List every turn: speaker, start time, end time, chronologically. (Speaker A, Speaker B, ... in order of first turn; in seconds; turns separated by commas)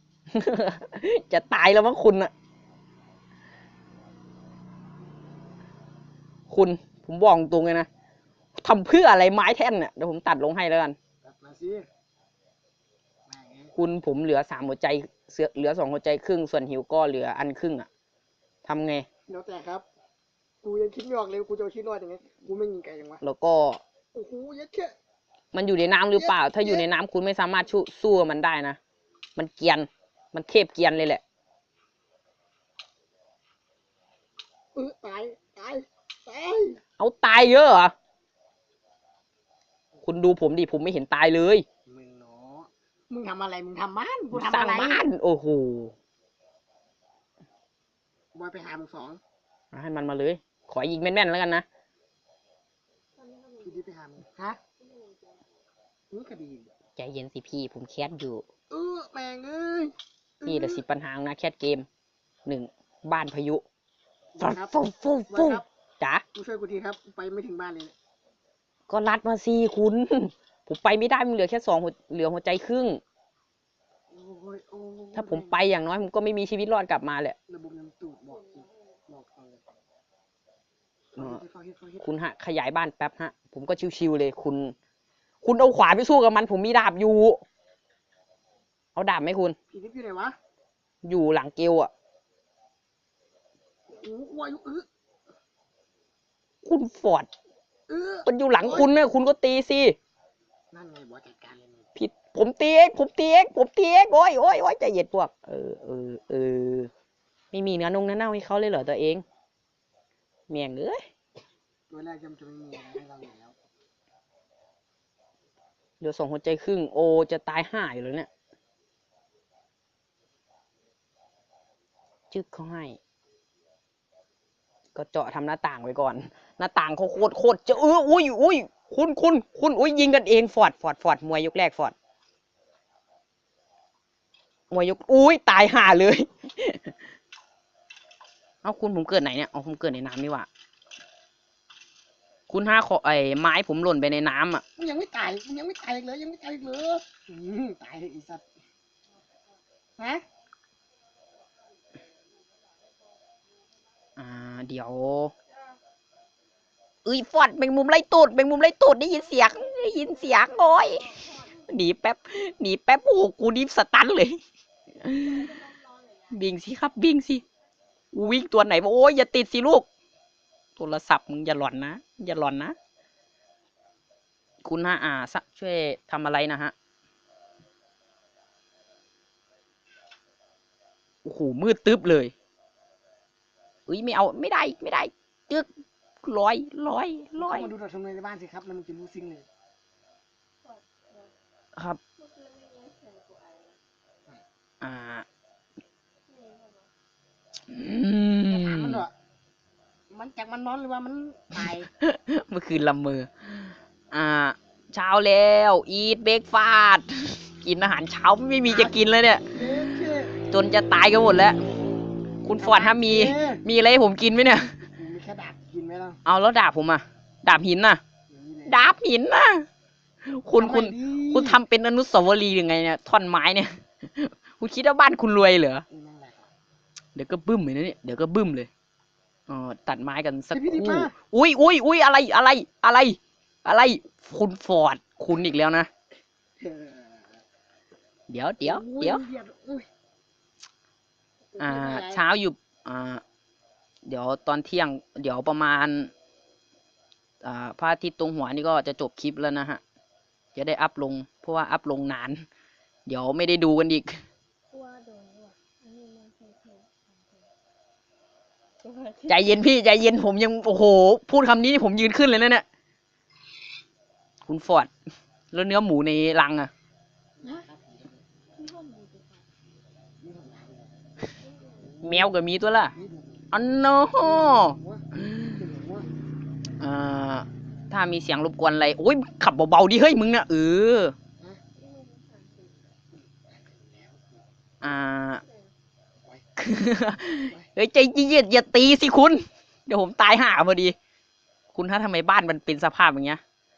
Speaker A: 0.3-2.3, Speaker A: 6.5-7.9, Speaker A: 8.6-11.0, Speaker B: 11.2-11.9, Speaker B: 13.3-13.7, Speaker A: 13.8-17.9, Speaker A: 18.6-19.1, Speaker B: 19.3-19.9, Speaker B: 20.6-23.2, Speaker A: 23.2-23.8, Speaker B: 24.1-24.9, Speaker A: 25.5-28.8, Speaker B: 26.1-26.9, Speaker A: 29.4-31.2, Speaker B: 34.8-36.8, Speaker A: 37.0-37.9, Speaker A: 40.0-41.6, Speaker B: 41.9-45.0, Speaker A: 44.3-45.9, Speaker B: 48.3-49.2, Speaker A: 49.7-51.6, Speaker C: 53.2-53.8, Speaker B: 53.6-54.6, Speaker C: 54.8-55.4, Speaker B: 56.1-56.7, Speaker A: 57.0-58.5, Speaker B: 58.7-60.8, Speaker A: 60.5-61.9, Speaker A: 62.5-63.6, Speaker B: 64.3-65.7, Speaker A: 64.4-66.2, Speaker B: 66.3-68.0, Speaker A: 68.9-73.0, Speaker B: 74.1-75.6, Speaker A: 75.1-77.4, Speaker B: 77.5-79.6, Speaker B: 81.1-82.1, Speaker A: 82.0-84.8, Speaker A: 85.4-87.4, Speaker A: 89.0-89.6, Speaker B: 89.7-90.3, Speaker A: 91.0-91.9, Speaker B: 93.9-94.9, Speaker A: 96.6-97.3, Speaker B: 97.9-98.9, Speaker A: 98.3-100.0, Speaker B: 100.7-101.8, Speaker A: 102.0-106.9, Speaker A: 107.5-109.2, Speaker A: 110.5-111.0, Speaker B: 111.9-113.6, Speaker A: 116.0-118.3, Speaker A: 122.3-123.0, Speaker A: 125.0-131.9, Speaker A: 134.7-136.9, Speaker A: 138.6-140.5, Speaker A: 142.5-144.6, Speaker B: 144.8-148.5, Speaker B: 150.0-150.2, Speaker A: 154.2-155.3, Speaker A: 157.1-164.4, Speaker C: 161.1-161.5, Speaker A: 165.0-165.7, Speaker C: 165.4-166.3, Speaker A: 166.3-167.4, Speaker A: 168.1-169.9, Speaker A: 170.8-172.8, Speaker A: 174.6-176.7, Speaker A: 181.2-182.3, Speaker A: 183.9-185.7, Speaker A: 186.2-187.7, Speaker B: 187.4-189.5, Speaker C: 190.6-191.3, Speaker C: 192.2-193.8, Speaker A: 194.8-195.3, Speaker C: 196.3-196.9, Speaker A: 197.7-199.0, Speaker B: 198.5-199.1, Speaker B: 200.1-201.9, Speaker A: 201.6-211.6, Speaker B: 208.7-210.4, Speaker A: 212.4-214.8, Speaker B: 212.6-213.6, Speaker B: 215.0-216.2, Speaker A: 216.2-218.0, Speaker B: 218.3-218.9, Speaker A: 218.7-219.7, Speaker A: 220.2-225.9, Speaker B: 220.5-221.6, Speaker B: 225.9-226.5, Speaker A: 227.2-228.7, Speaker A: 229.5-235.9, Speaker B: 230.5-231.1, Speaker B: 236.6-237.4, Speaker A: 238.3-239.3, Speaker B: 238.6-239.9, Speaker B: 241.6-242.2, Speaker A: 241.6-243.2, Speaker A: 244.1-246.1, Speaker A: 247.4-249.8, Speaker A: 250.6-252.5, Speaker A: 253.1-254.2, Speaker C: 254.7-257.5, Speaker C: 258.8-259.5, Speaker A: 259.3-262.6, Speaker A: 264.5-264.9, Speaker A: 265.5-266.7, Speaker B: 267.4-268.2, Speaker C: 268.6-269.4, Speaker B: 270.2-271.0, Speaker C: 271.4-271.9, Speaker B: 271.8-272.3, Speaker A: 272.0-272.9, Speaker B: 272.9-273.5, Speaker A: 273.5-274.8, Speaker B: 274.2-276.1, Speaker A: 276.8-281.2, Speaker C: 281.8-282.8, Speaker B: 283.1-285.0, Speaker A: 284.8-285.4, Speaker C: 285.4-285.7, Speaker A: 286.6-291.0, Speaker A: 291.7-293.4